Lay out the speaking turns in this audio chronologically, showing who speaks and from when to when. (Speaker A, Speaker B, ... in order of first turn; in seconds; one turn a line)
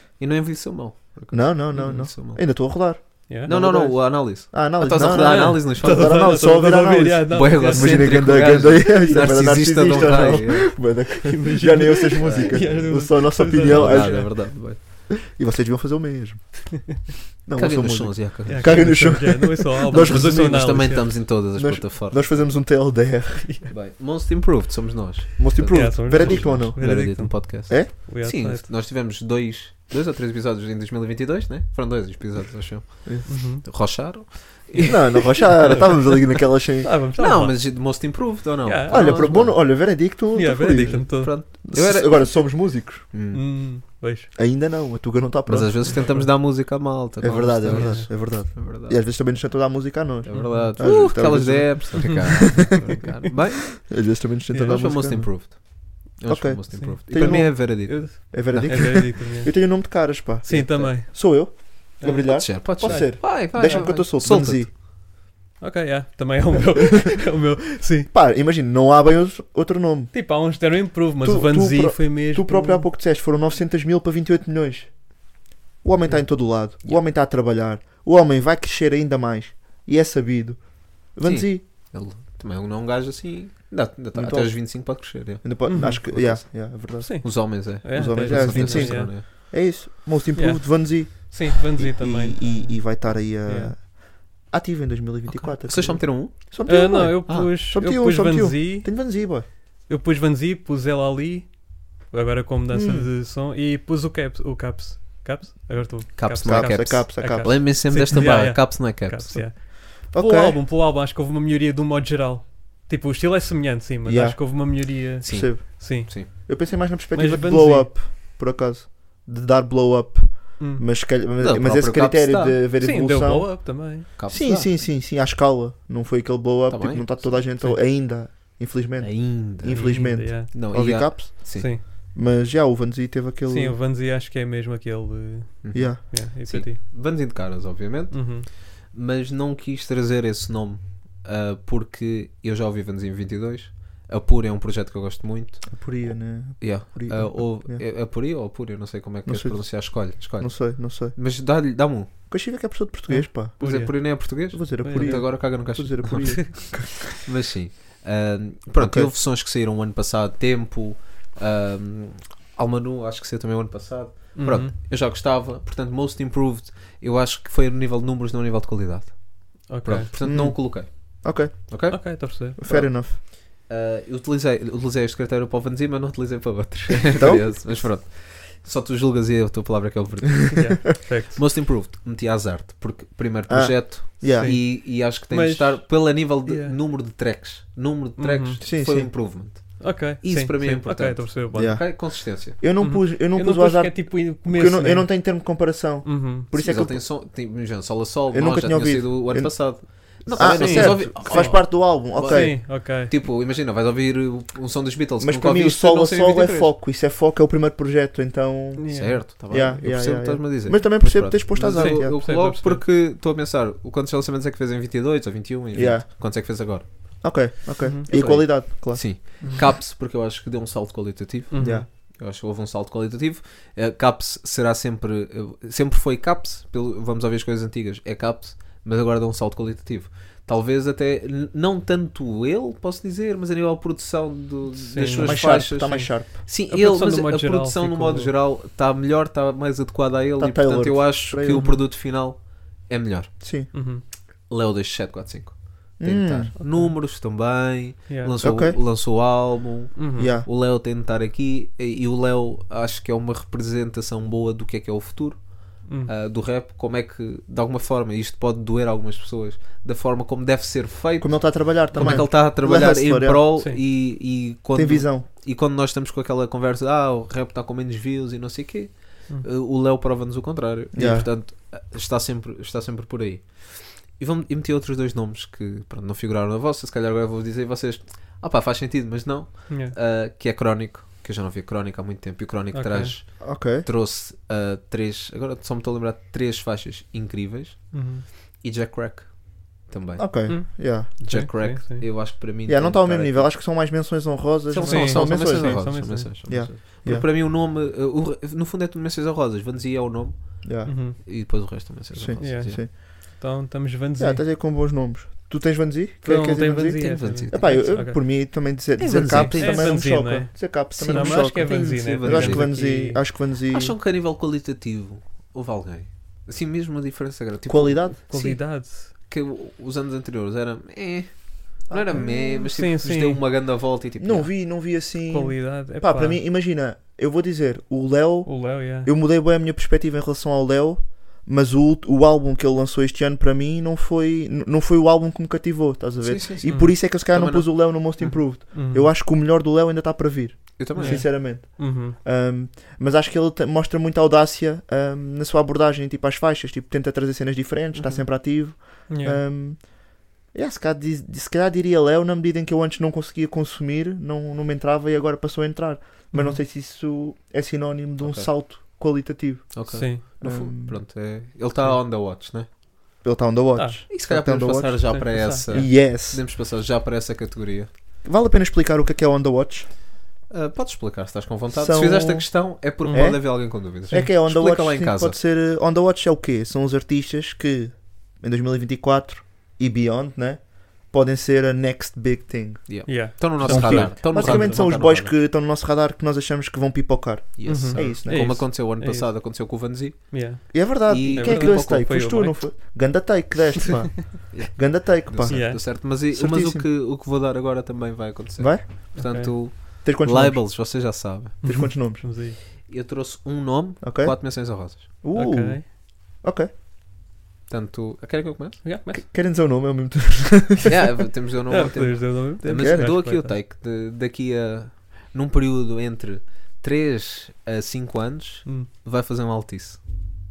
Speaker A: 0.2-6.4
Speaker B: 1.3-21.0
Speaker C: 5.0-14.3
Speaker A: 7.3-10.9
Speaker A: 12.2-13.1
Speaker A: 13.6-14.8
Speaker A: 17.6-19.2
Speaker C: 18.4-21.2
Speaker A: 19.9-22.4
Speaker B: 21.5-23.6
Speaker A: 23.7-36.0
Speaker B: 25.4-26.9
Speaker C: 25.7-28.7
Speaker C: 33.3-33.9
Speaker C: 34.7-36.1
Speaker B: 34.8-36.9
Speaker C: 36.8-38.0
Speaker A: 37.2-39.7
Speaker C: 38.6-39.6
Speaker B: 38.9-43.1
Speaker C: 40.3-41.4
Speaker A: 40.9-43.7
Speaker C: 43.3-44.3
Speaker B: 44.4-46.4
Speaker A: 45.5-49.3
Speaker C: 45.8-46.3
Speaker B: 47.2-52.8
Speaker C: 47.6-48.1
Speaker A: 50.2-59.2
Speaker C: 50.3-51.1
Speaker C: 52.0-52.8
Speaker B: 53.8-55.7
Speaker C: 54.5-54.9
Speaker B: 56.3-64.7
Speaker C: 56.7-64.1
Speaker A: 60.5-60.9
Speaker A: 62.2-64.7
Speaker C: 65.6-68.1
Speaker B: 68.1-70.1
Speaker C: 70.1-72.9
Speaker B: 71.2-75.2
Speaker B: 75.8-81.7
Speaker A: 76.4-77.1
Speaker A: 81.2-89.2
Speaker B: 84.1-99.5
Speaker C: 85.7-86.0
Speaker C: 87.0-89.5
Speaker C: 90.3-93.8
Speaker A: 95.3-96.6
Speaker C: 96.7-116.6
Speaker B: 102.7-103.1
Speaker A: 106.2-109.5
Speaker B: 106.4-107.6
Speaker B: 110.1-110.6
Speaker B: 114.0-133.8
Speaker A: 115.2-116.3
Speaker C: 117.1-117.9
Speaker A: 121.4-122.6
Speaker C: 122.8-124.1
Speaker A: 124.2-124.7
Speaker A: 126.7-127.6
Speaker A: 129.0-131.7
Speaker C: 129.7-130.5
Speaker C: 131.6-131.8
Speaker C: 133.5-136.8
Speaker A: 135.6-152.1
Speaker B: 135.7-136.0
Speaker C: 138.1-138.5
Speaker B: 145.7-147.8
Speaker B: 149.3-151.2
Speaker B: 152.3-153.6
Speaker C: 153.1-155.4
Speaker A: 153.6-192.6
Speaker B: 154.3-157.1
Speaker B: 158.8-159.1
Speaker C: 164.4-164.7
Speaker C: 169.7-170.1
Speaker B: 170.2-172.0
Speaker C: 171.9-172.6
Speaker B: 172.6-173.2
Speaker B: 177.2-177.7
Speaker C: 180.5-181.4
Speaker B: 183.5-184.6
Speaker C: 184.4-186.8
Speaker C: 188.2-188.6
Speaker B: 188.6-189.1
Speaker C: 189.8-191.8
Speaker B: 191.5-197.1
Speaker C: 192.8-196.5
Speaker A: 196.6-206.7
Speaker B: 198.3-202.6
Speaker C: 200.3-203.1
Speaker B: 205.2-212.2
Speaker C: 208.8-209.2
Speaker A: 208.9-217.5
Speaker C: 211.7-212.8
Speaker B: 215.7-216.1
Speaker B: 217.2-219.6
Speaker C: 217.8-218.1
Speaker A: 218.1-243.3
Speaker C: 221.5-221.9
Speaker B: 221.6-221.9
Speaker C: 234.8-238.3
Speaker B: 235.2-236.4
Speaker B: 240.4-241.7
Speaker C: 241.5-241.8
Speaker B: 243.4-243.7
Speaker C: 243.7-244.0
Speaker A: 244.5-293.6
Speaker B: 246.0-246.5
Speaker C: 246.6-247.0
Speaker C: 248.1-248.3
Speaker B: 248.4-248.8
Speaker C: 249.9-250.3
Speaker B: 250.2-250.5
Speaker B: 261.2-263.4
Speaker C: 261.9-262.3
Speaker B: 264.7-265.3
Speaker B: 270.9-271.3
Speaker C: 279.7-279.9
Speaker C: 282.7-283.2
Speaker B: 283.4-283.9
Speaker C: 287.9-288.2
Speaker B: 290.2-291.1
Speaker C: 290.5-292.1
Speaker B: 292.7-297.3
Speaker A: 294.7-302.8
Speaker C: 294.9-296.7
Speaker B: 300.6-301.0
Speaker C: 300.9-301.2
Speaker B: 302.1-302.9
Speaker C: 302.4-304.4
Speaker B: 304.2-313.9
Speaker C: 306.2-313.2
Speaker A: 306.9-308.2
Speaker A: 309.0-310.1
Speaker A: 311.0-312.8
Speaker A: 313.6-324.6
Speaker B: 317.7-318.2
Speaker C: 318.3-319.1
Speaker B: 321.9-322.7
Speaker C: 322.1-323.4
Speaker B: 324.2-361.0
Speaker C: 325.3-326.4
Speaker C: 328.5-329.1
Speaker A: 336.2-338.4
Speaker C: 336.7-336.9
Speaker C: 338.7-339.1
Speaker A: 340.8-341.4
Speaker C: 341.0-342.2
Speaker A: 347.9-348.2
Speaker C: 349.1-349.4
Speaker C: 356.3-356.6
Speaker A: 358.2-358.6
Speaker A: 359.7-362.7
Speaker C: 359.9-360.2
Speaker B: 363.2-366.4
Speaker C: 363.8-364.0
Speaker A: 364.1-367.9
Speaker C: 365.1-365.6
Speaker B: 368.2-369.9
Speaker A: 370.5-375.4
Speaker B: 371.7-383.1
Speaker C: 373.0-373.3
Speaker A: 382.9-385.4
Speaker C: 383.1-384.9
Speaker B: 383.6-388.5
Speaker A: 387.6-392.1
Speaker C: 387.7-389.3
Speaker C: 390.3-392.7
Speaker B: 390.7-396.9
Speaker A: 394.5-401.9
Speaker C: 395.5-395.8
Speaker B: 398.6-399.1
Speaker C: 399.1-399.5
Speaker B: 400.0-400.8
Speaker B: 401.6-402.3
Speaker C: 401.6-402.6
Speaker A: 402.6-405.1
Speaker B: 404.0-406.7
Speaker C: 405.4-405.9
Speaker A: 407.7-408.8
Speaker C: 408.8-409.2
Speaker B: 409.1-410.9
Speaker A: 410.8-420.0
Speaker C: 411.7-413.6
Speaker B: 412.8-413.1